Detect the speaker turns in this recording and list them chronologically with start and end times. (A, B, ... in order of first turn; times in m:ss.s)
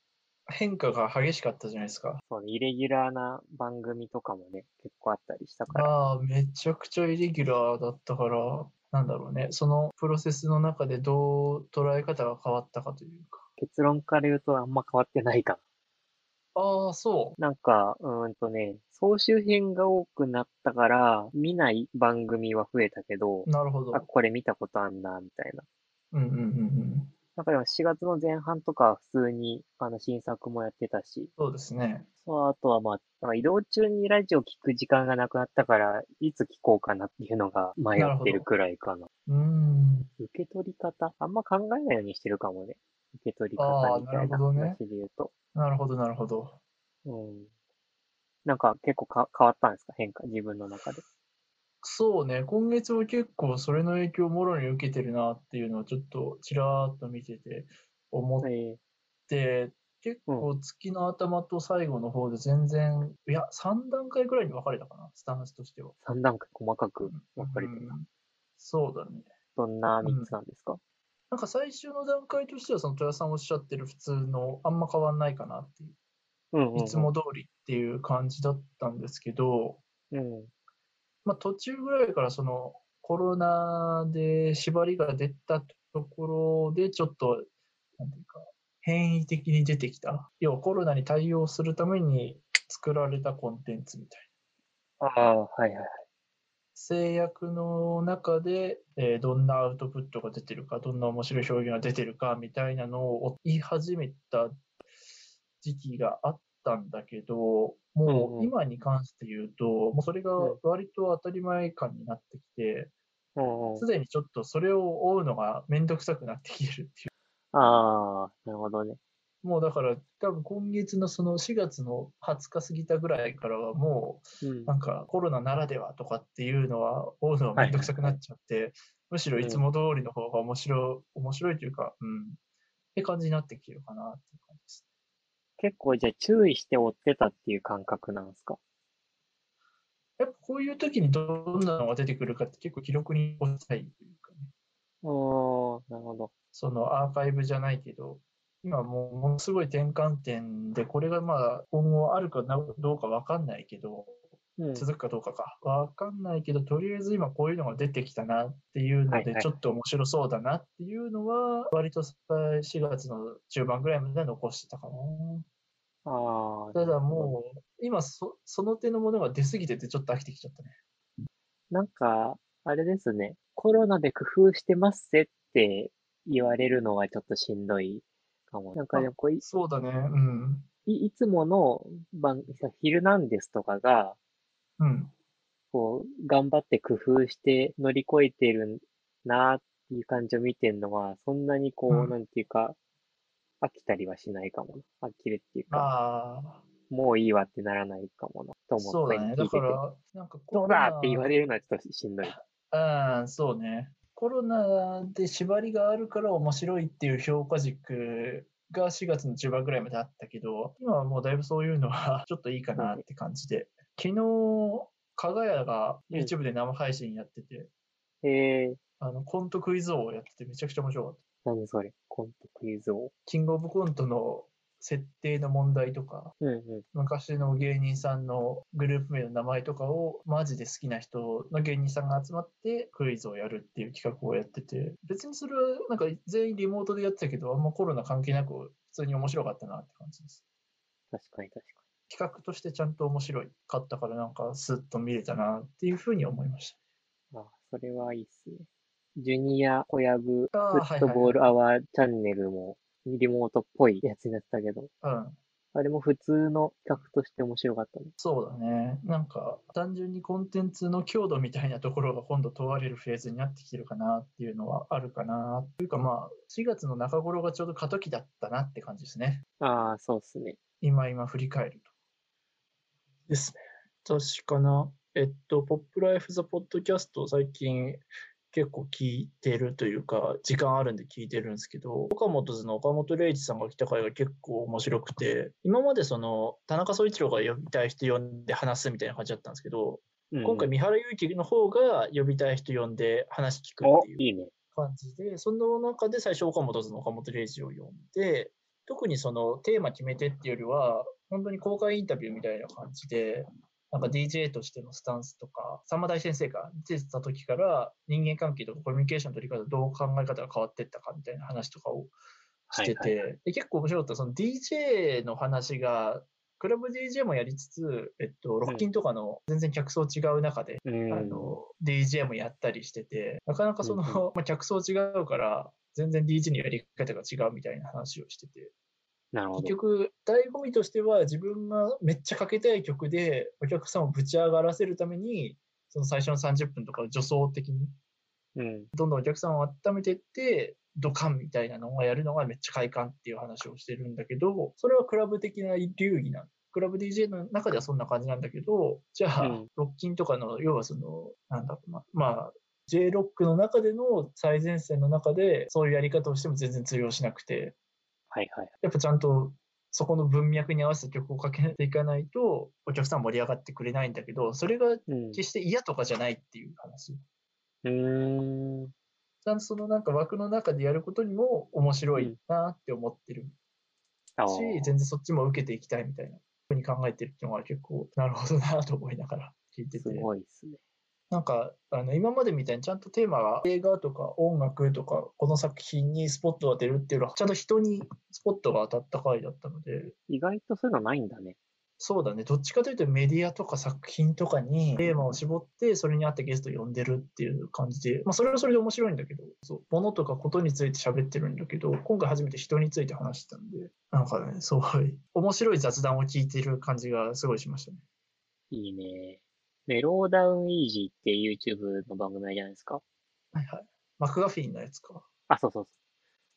0:00.5-0:02.2 A
0:02.2-0:05.9 B
0:05.7-0:13.4 A
0:13.6-0:15.6 B
0:16.5-0:17.4 A
0:17.4-0:25.6 B
0:23.5-0:24.0 A
0:26.1-0:27.1 A
0:27.4-0:31.3 B
0:31.4-0:32.1 A
0:32.2-0:39.1 B
0:38.0-0:38.5 A
0:39.3-0:40.1 A
0:40.2-0:45.3 B
0:43.6-0:44.8 A
0:45.6-0:46.6 A
0:47.0-0:47.5 B
0:48.4-0:51.0 B
0:51.8-0:58.5 A
0:58.4-0:58.8 B
0:59.3-1:05.9 A
1:06.0-1:08.0 B
1:07.1-1:08.0 A
1:08.6-1:09.3 A
1:09.6-1:10.8 B
1:10.0-1:10.3 A
1:11.3-1:16.0 A
1:16.5-1:17.1 B
1:16.7-1:19.8 A
1:20.1-1:20.5 B
1:21.2-1:27.5 A
1:28.0-1:34.2 A
1:35.0-1:36.0 B
1:36.7-1:44.6 A
1:45.6-1:52.9 A
1:48.0-1:48.5 B
1:53.4-1:53.9 B
1:53.8-1:57.1 A
1:57.5-1:59.0 B
1:59.4-2:12.4 A
2:04.4-2:04.7 B
2:07.6-2:08.2 B
2:09.4-2:09.6 B
2:13.0-2:14.8 A
2:15.6-2:18.6 B
2:20.2-2:24.5 A
2:25.0-2:26.3 B
2:26.5-2:34.2 A
2:34.6-2:34.9 B
2:34.8-2:45.4 A
2:39.1-2:39.5 B
2:46.0-2:47.3 B
2:46.7-2:50.8 A
2:51.7-2:59.4 B
2:58.9-3:00.7 A
3:00.9-3:04.2 B
3:04.8-3:05.1 A
3:05.7-3:12.8 B
3:11.9-3:12.2 A
3:13.6-3:15.9 B
3:15.7-3:16.6 A
3:16.9-3:19.8 B
3:18.8-3:21.3 A
3:20.5-3:22.4 B
3:22.2-3:37.7 A
3:32.8-3:33.0 B
3:38.2-3:38.8 B
3:39.0-3:41.2 A
3:41.4-3:43.1 B
3:43.3-3:46.3 A
3:46.4-3:46.8 B
3:46.9-4:00.4 A
4:01.1-4:01.8 B
4:02.1-4:06.8 A
4:07.3-4:14.9 B
4:10.5-4:11.5 A
4:15.0-4:15.4 A
4:15.7-4:18.1 B
4:18.2-4:29.4 A
4:29.6-4:30.6 B
4:30.8-4:31.9 A
4:33.3-4:54.2 A
4:50.3-4:50.7 B
4:53.8-4:54.5 B
4:54.8-5:12.1 A
5:12.7-5:13.2 B
5:12.7-5:28.7 A
5:20.8-5:21.6 B
5:23.8-5:24.2 B
5:29.3-5:29.8 B
5:29.6-5:37.9 A
5:38.6-5:38.9 B
5:38.9-5:57.8 A
5:49.4-5:49.7 B
5:58.3-5:58.7 B
5:58.8-6:07.2 A
6:05.1-6:05.4 B
6:07.8-6:08.9 B
6:09.4-6:13.5 A
6:14.4-6:14.9 B
6:14.5-6:20.3 A
6:20.0-6:20.8 B
6:21.3-6:30.1 A
6:30.3-6:31.6 B
6:32.0-6:48.0 A
6:48.7-6:53.0 B
6:53.5-6:55.2 A
6:55.5-6:55.9 B